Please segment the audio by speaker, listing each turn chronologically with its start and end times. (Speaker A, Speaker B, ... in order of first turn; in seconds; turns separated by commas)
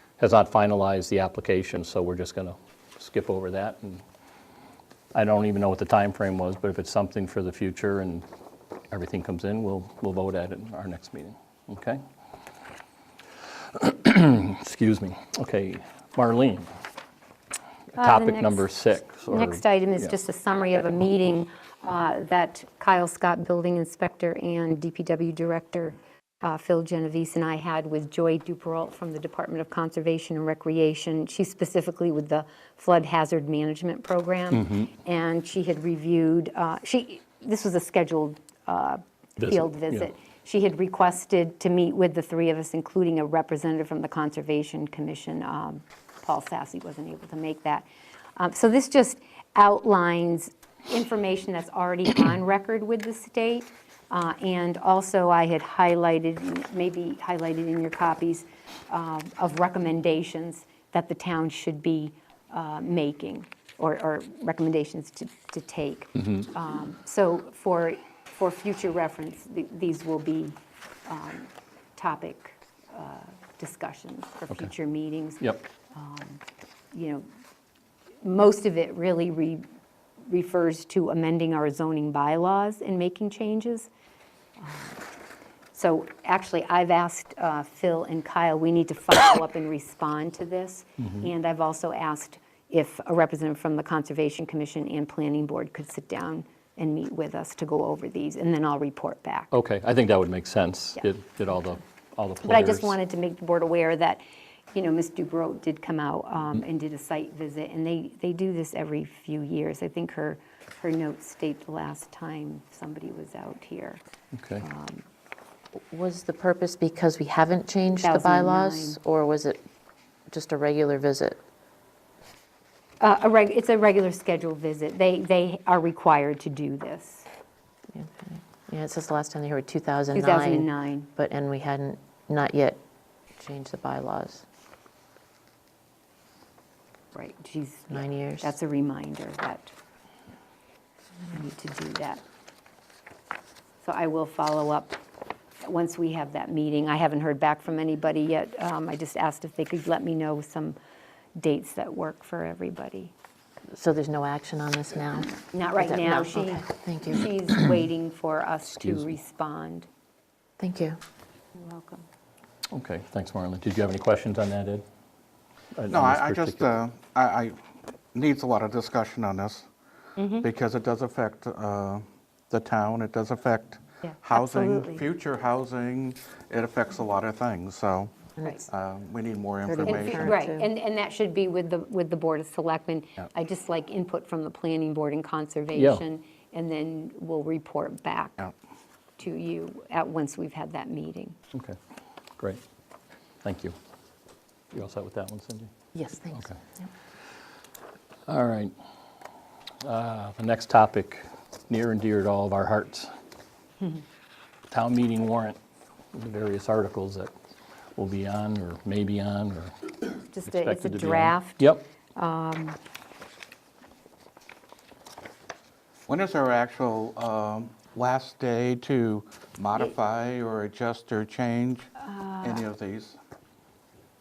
Speaker A: 0.2-4.0, Speaker A: 5.1-8.3, Speaker A: 8.9-12.0, Speaker A: 13.7-16.7, Speaker A: 17.9-20.1, Speaker B: 17.9-76.4, Speaker A: 34.5-34.9, Speaker A: 39.4-40.1, Speaker B: 76.9-77.3, Speaker B: 78.2-79.6, Speaker B: 80.2-83.9, Speaker B: 84.6-85.0, Speaker B: 85.7-99.5, Speaker A: 99.5-103.0, Speaker B: 102.4-114.0, Speaker A: 114.3-114.6, Speaker B: 114.6-115.0, Speaker C: 115.9-119.6, Speaker B: 118.0-119.0, Speaker C: 120.3-121.4, Speaker B: 123.0-127.3, Speaker C: 127.9-132.8, Speaker B: 130.1-131.1, Speaker C: 133.4-134.4, Speaker B: 137.1-139.7, Speaker C: 137.9-138.5, Speaker B: 141.3-142.2, Speaker B: 143.8-145.0, Speaker B: 145.6-150.8, Speaker B: 151.4-153.1, Speaker C: 153.7-157.3, Speaker B: 155.5-159.9, Speaker A: 158.7-159.1, Speaker C: 160.6-161.0, Speaker B: 161.6-162.1, Speaker A: 162.7-164.8, Speaker A: 165.8-166.7, Speaker D: 165.9-167.6, Speaker D: 168.1-169.7, Speaker B: 170.2-170.4, Speaker D: 170.3-180.4, Speaker B: 174.0-175.1, Speaker C: 178.4-178.7, Speaker C: 179.7-180.7, Speaker B: 179.7-188.5, Speaker A: 185.7-186.0, Speaker B: 189.2-191.4, Speaker A: 193.4-193.8, Speaker A: 194.7-195.7, Speaker C: 195.9-196.9, Speaker A: 196.3-196.6, Speaker A: 198.3-198.7, Speaker A: 199.8-203.1, Speaker A: 204.7-205.6, Speaker A: 206.1-207.3, Speaker A: 208.0-209.9, Speaker B: 210.3-212.8, Speaker A: 210.4-211.8, Speaker D: 216.1-223.2, Speaker B: 222.0-222.6